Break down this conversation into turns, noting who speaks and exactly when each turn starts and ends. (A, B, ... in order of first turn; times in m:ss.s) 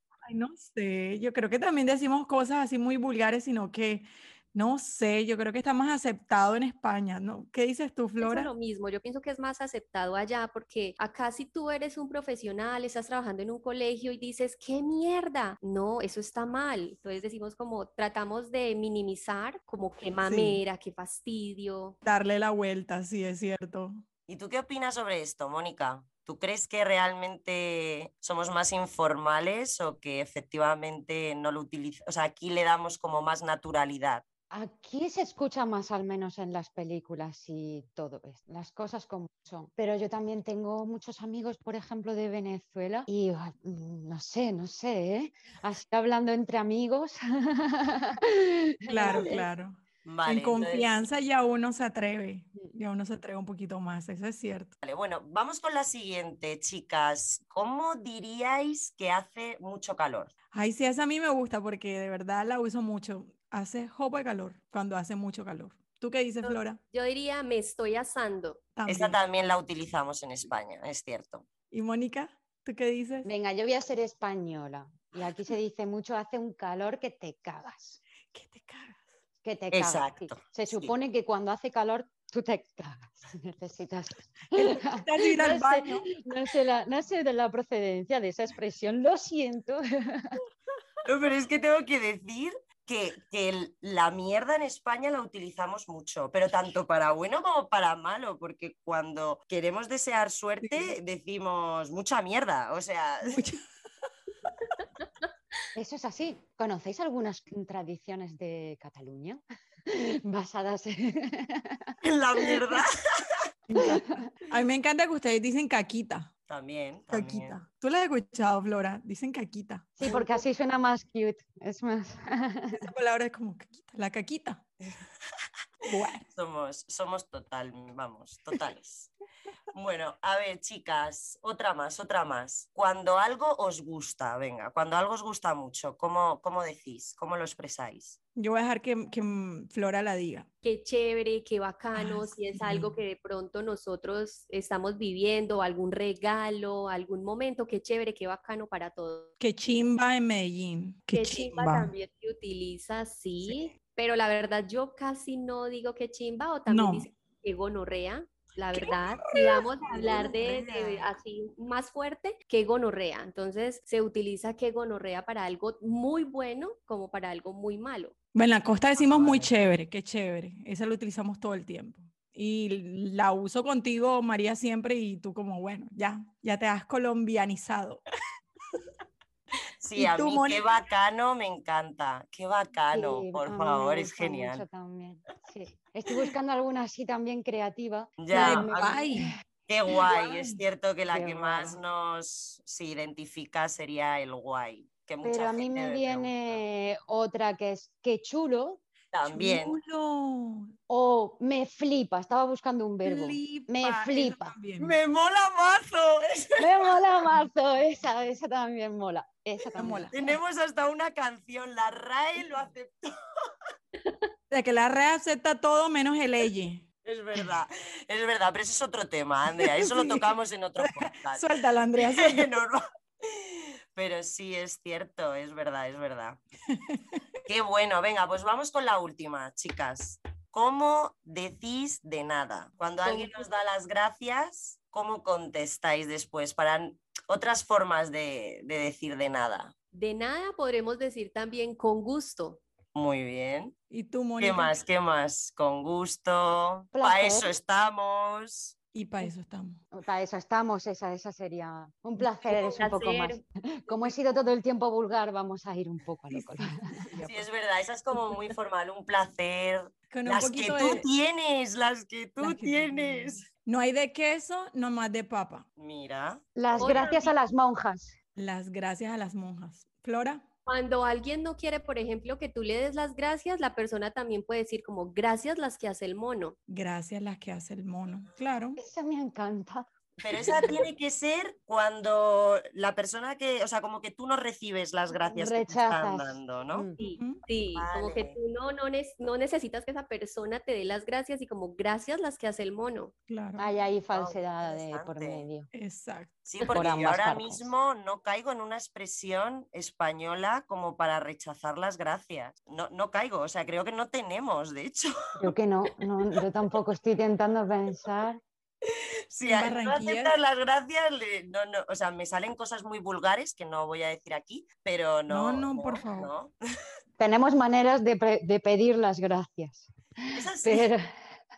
0:00.3-0:08.5 A
0:08.2-0:22.0 B
0:20.2-0:20.6 A
0:22.0-0:24.0 A
0:24.3-0:34.2 C
0:34.5-0:48.2 D
0:48.8-0:49.5 D
0:48.9-0:54.7 A
0:49.1-0:49.3 C
0:50.0-0:50.9 C
0:54.8-1:00.3 C
1:00.5-1:06.8 A
1:06.4-1:08.6 B
1:08.8-1:09.2 A
1:08.9-1:11.5 C
1:11.7-1:13.3 A
1:13.2-1:18.0 D
1:18.3-1:19.1 A
1:19.4-1:30.4 D
1:19.7-1:20.9 C
1:24.6-1:26.1 A
1:31.0-1:43.4 C
1:40.6-1:40.9 A
1:43.3-1:43.6 A
1:44.8-1:45.3 B
1:45.8-1:51.9 D
1:52.0-1:52.9 C
1:53.7-1:56.3 A
1:56.5-1:57.6 C
1:57.1-2:00.4 A
2:00.0-2:02.9 D
2:02.8-2:04.6 A
2:05.9-2:06.2 A
2:06.3-2:09.1 C
2:09.7-2:18.2 C
2:18.4-2:20.5 A
2:20.6-2:29.3 B
2:22.0-2:22.9 A
2:29.4-2:31.9 A
2:31.1-2:48.1 B
2:36.7-2:37.1 A
2:38.8-2:39.4 A
2:40.0-2:41.1 A
2:48.3-2:58.1 A
2:49.0-2:49.5 C
2:59.8-3:04.6 C
3:00.0-3:00.6 A
3:02.9-3:09.3 D
3:08.2-3:09.0 C
3:08.3-3:09.3 A
3:09.7-3:16.6 C
3:10.3-3:10.5 A
3:11.1-3:11.8 D
3:15.2-3:18.8 D
3:19.1-3:19.8 C
3:19.2-3:20.7 A
3:20.9-3:24.6 D
3:23.0-3:25.0 A
3:24.8-3:26.7 C
3:26.6-3:30.1 D
3:29.8-3:30.2 A
3:30.1-3:33.1 C
3:34.5-3:36.8 A
3:37.0-3:41.5 C
3:39.6-3:42.5 A
3:42.0-3:46.4 C
3:46.9-3:47.2 A
3:47.5-3:59.7 C
3:53.0-3:53.4 B
3:59.9-4:02.6 B
4:03.0-4:03.7 C
4:03.9-4:04.8 A
4:04.4-4:08.7 C
4:07.0-4:07.6 D
4:08.9-4:09.8 A
4:09.9-4:16.7 D
4:12.5-4:13.4 B
4:16.3-4:17.5 A
4:17.2-4:23.4 C
4:20.1-4:21.1 A
4:22.4-4:25.6 A
4:25.8-4:26.4 C
4:26.6-4:28.2 D
4:26.8-4:27.3 B
4:28.4-4:30.4 A
4:30.7-4:36.6 B
4:36.7-4:38.8 A
4:38.8-4:40.8 D
4:40.2-4:46.9 C
4:45.1-4:47.0 D
4:47.0-4:53.1 B
4:47.0-4:47.4 A
4:47.7-4:48.4 C
4:53.3-4:53.7 A
4:53.6-4:55.7 D
4:54.1-4:55.5 C
4:55.7-4:56.3 A
4:56.5-5:05.5 C
4:56.7-4:57.7 D
5:05.4-5:08.4 D
5:09.3-5:16.6 C
5:09.4-5:10.3 A
5:15.3-5:16.3 A
5:17.2-5:21.0 D
5:20.4-5:20.9 C